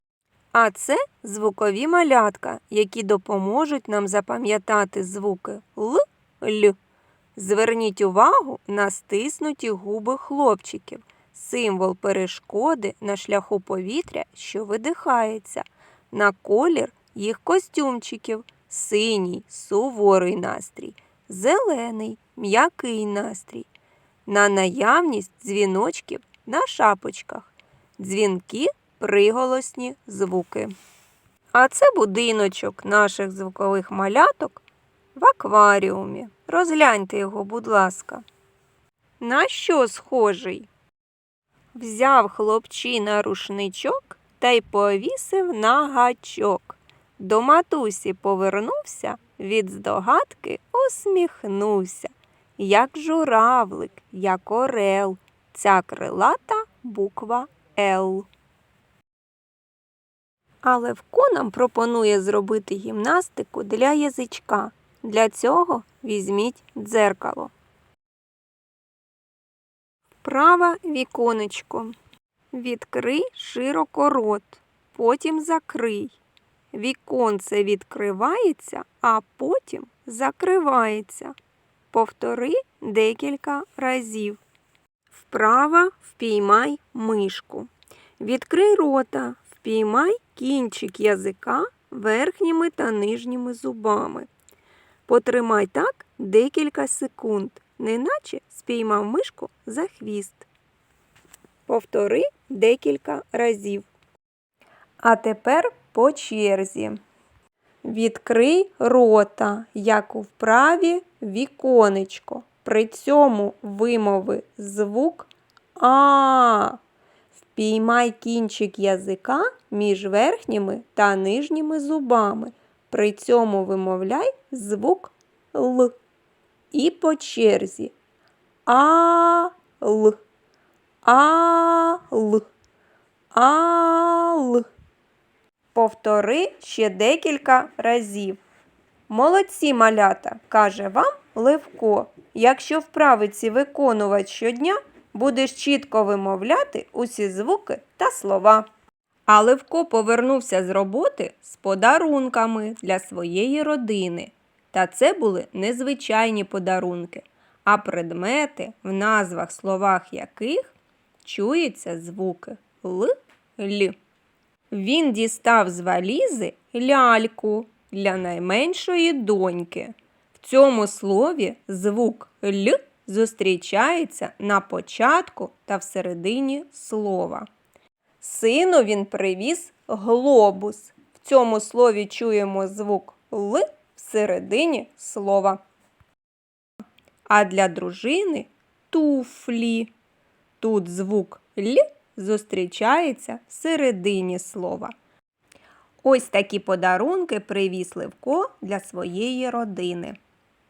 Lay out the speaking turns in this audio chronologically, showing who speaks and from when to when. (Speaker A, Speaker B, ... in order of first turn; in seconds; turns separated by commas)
Speaker A: 0.5-6.8, Speaker A: 7.4-23.7, Speaker A: 24.3-30.7, Speaker A: 31.5-34.6, Speaker A: 35.1-38.2, Speaker A: 39.2-40.7, Speaker A: 41.7-58.3, Speaker A: 60.6-67.5, Speaker A: 70.2-72.0, Speaker A: 72.5-76.2, Speaker A: 76.7-81.3, Speaker A: 81.9-84.4, Speaker A: 85.1-94.3, Speaker A: 95.1-100.5, Speaker A: 101.7-103.9, Speaker A: 105.0-107.0, Speaker A: 107.8-116.8, Speaker A: 117.4-126.0, Speaker A: 126.7-128.0, Speaker A: 128.7-130.2, Speaker A: 131.0-132.5, Speaker A: 133.3-134.7, Speaker A: 135.7-138.4, Speaker A: 139.1-148.7, Speaker A: 149.3-164.0, Speaker A: 164.7-177.5, Speaker A: 178.2-185.6, Speaker A: 187.3-189.9, Speaker A: 190.6-194.9, Speaker A: 196.0-200.2